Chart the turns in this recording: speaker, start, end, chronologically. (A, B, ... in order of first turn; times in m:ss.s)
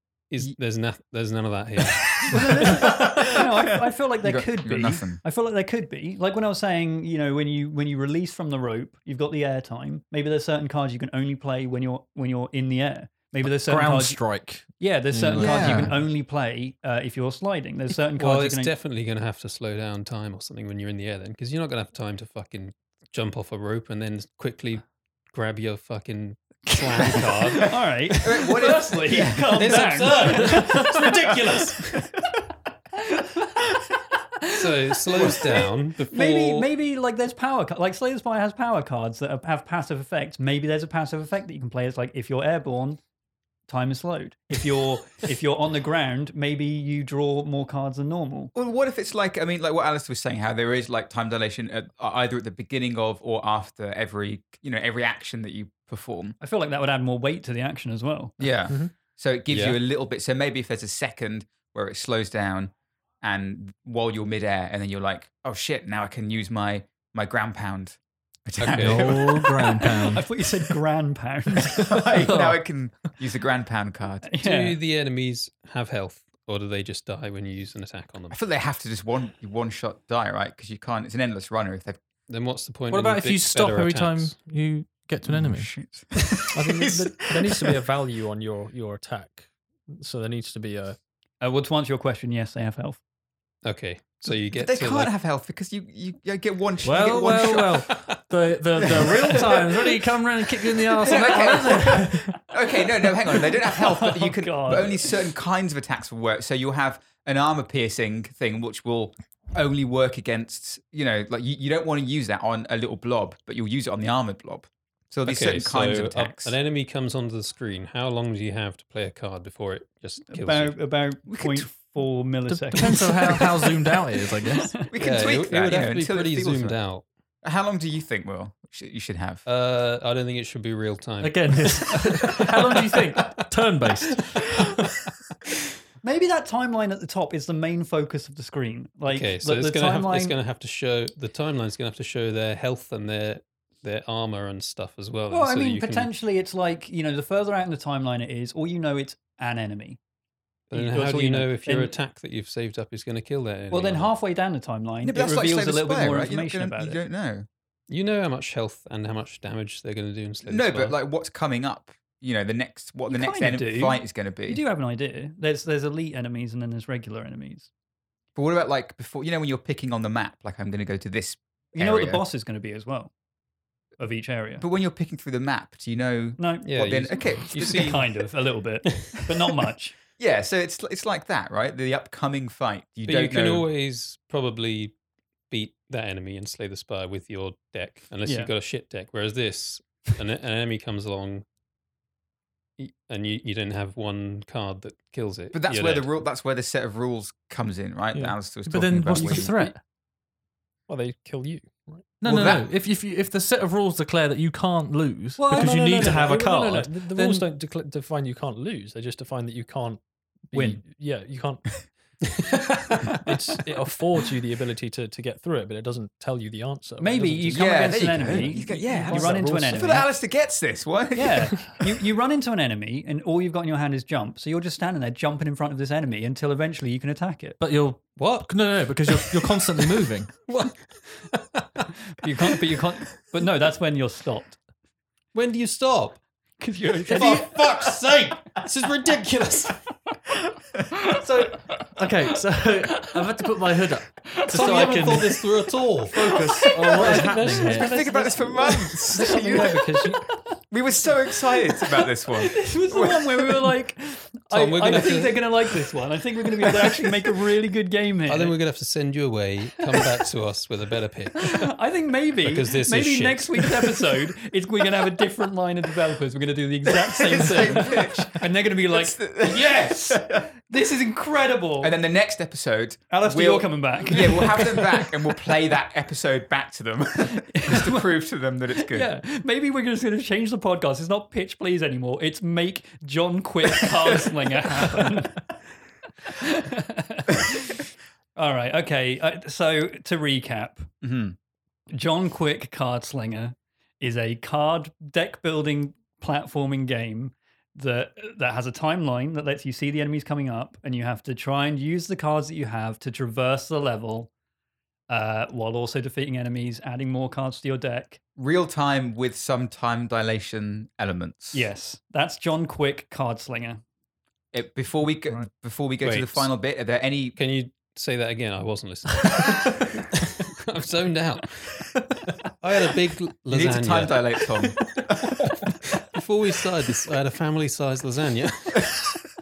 0:00.3-0:02.9 A
0:02.0-0:03.4 B
0:02.3-0:14.2 C
0:04.2-0:05.2 B
0:13.4-0:15.9 D
0:14.8-0:18.7 C
0:15.4-0:15.9 B
0:18.2-0:27.8 A
0:27.2-0:27.5 B
0:27.6-0:31.1 C
0:28.2-0:29.9 B
0:29.5-0:32.0 A
0:33.0-0:33.8 C
0:34.4-0:43.0 C
0:34.5-0:36.7 A
0:43.7-0:48.5 C
0:48.5-0:56.4 B
0:56.4-0:58.4 C
0:58.4-1:10.0 B
0:59.5-0:59.8 A
1:08.6-1:09.2 A
1:08.7-1:10.3 D
1:09.8-1:12.4 C
1:11.7-1:14.3 B
1:12.2-1:12.6 D
1:14.2-1:14.8 C
1:14.4-1:18.4 A
1:18.3-1:22.0 B
1:22.3-1:24.4 A
1:22.9-1:25.7 D
1:25.3-1:27.8 B
1:26.5-1:31.0 E
1:31.4-1:33.0 C
1:33.6-1:35.1 A
1:34.5-1:38.2 B
1:36.8-1:42.4 D
1:38.8-1:39.7 B
1:41.0-1:56.5 B
1:41.1-1:42.3 C
1:43.2-1:45.3 C
1:55.2-2:00.8 A
2:00.3-2:04.8 C
2:01.2-2:01.7 B
2:02.5-2:04.8 D
2:04.8-2:06.8 B
2:05.0-2:07.0 A
2:07.4-2:09.4 B
2:09.4-2:13.4 A
2:11.2-2:14.8 D
2:14.0-2:14.5 A
2:16.0-2:20.4 C
2:19.1-2:26.1 A
2:25.3-2:30.0 C
2:30.7-2:34.1 A
2:30.7-2:31.9 C
2:33.7-2:37.0 C
2:35.0-2:37.4 B
2:37.9-2:41.0 A
2:40.5-2:44.6 B
2:43.1-2:47.7 C
2:48.3-2:52.2 B
2:51.7-2:53.1 C
2:54.0-2:54.6 C
2:54.6-2:58.0 B
2:56.4-3:00.0 C
2:56.6-2:58.1 A
3:00.2-3:03.7 B
3:03.0-3:04.9 A
3:05.5-3:11.4 A
3:08.2-3:08.5 C
3:12.8-3:16.1 A
3:15.5-3:19.5 B
3:18.6-3:19.8 D
3:19.1-3:19.7 E
3:20.9-3:22.1 E
3:22.2-3:27.5 D
3:22.2-3:22.7 B
3:25.4-3:26.3 C
3:25.5-3:31.9 E
3:30.5-3:30.8 C
3:33.1-3:39.8 E
3:37.0-3:40.1 C
3:37.5-3:41.8 B
3:41.1-3:47.6 C
3:47.6-3:50.3 D
3:48.2-3:51.4 A
3:52.2-3:54.6 C
3:55.3-3:56.2 A
3:56.6-3:57.6 C
3:57.1-3:57.9 D
3:57.1-3:59.8 A
4:01.1-4:05.5 D
4:02.8-4:03.2 C
4:04.5-4:06.4 A
4:06.1-4:08.1 D
4:06.3-4:07.5 C
4:06.8-4:10.2 E
4:07.7-4:10.1 B
4:08.9-4:10.3 C
4:10.7-4:13.6 B
4:11.7-4:18.6 C
4:14.5-4:15.8 A
4:18.3-4:21.7 A
4:21.4-4:32.0 C
4:22.4-4:24.0 A
4:27.0-4:30.5 B
4:31.8-4:39.1 B
4:33.1-4:35.2 C
4:37.3-4:38.1 C
4:38.7-4:45.4 C
4:46.2-4:47.8 C
4:48.4-4:50.9 C
4:51.0-4:51.4 B
4:51.9-5:04.3 C
5:05.1-5:08.2 C
5:08.4-5:11.6 B
5:11.5-5:13.8 C
5:14.5-5:17.4 B
5:16.0-5:16.5 A
5:17.4-5:19.8 A
5:20.4-5:21.9 A
5:22.6-5:24.4 A
5:23.5-5:25.5 B
5:25.9-5:28.9 A